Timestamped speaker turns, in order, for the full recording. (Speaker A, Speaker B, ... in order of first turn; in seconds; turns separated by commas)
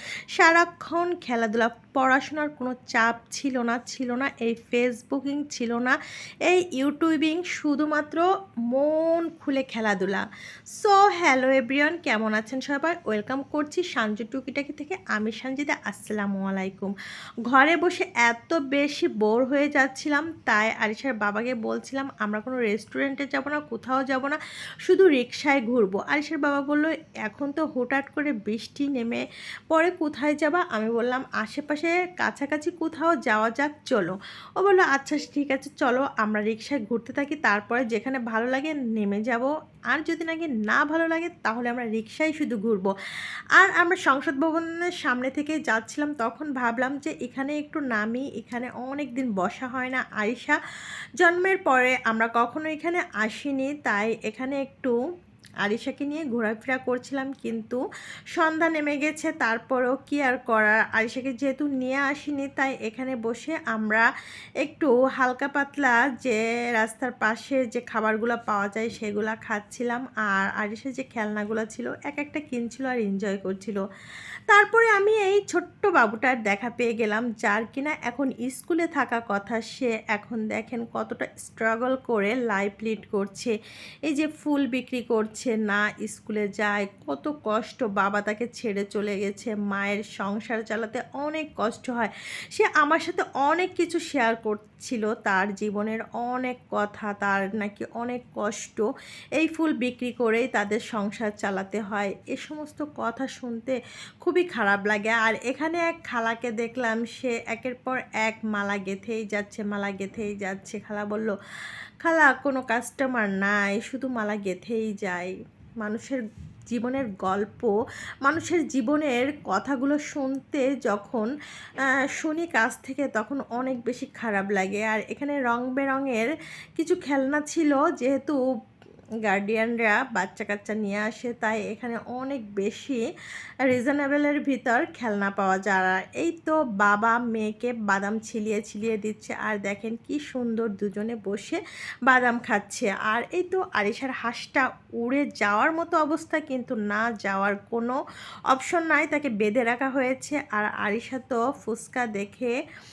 Speaker A: 0.4-5.9, Speaker A: 6.5-8.2, Speaker A: 8.7-10.2, Speaker A: 10.8-16.9, Speaker A: 17.5-42.9, Speaker A: 43.6-50.6, Speaker A: 51.2-54.9, Speaker A: 55.6-57.8, Speaker A: 58.4-64.1, Speaker A: 64.6-73.8, Speaker A: 74.5-83.5, Speaker A: 84.1-98.8, Speaker A: 99.4-111.3, Speaker A: 112.0-116.2, Speaker A: 116.7-117.7, Speaker A: 118.2-121.3, Speaker A: 122.2-126.3, Speaker A: 126.8-128.4, Speaker A: 129.3-133.0, Speaker A: 133.7-148.0, Speaker A: 148.5-152.5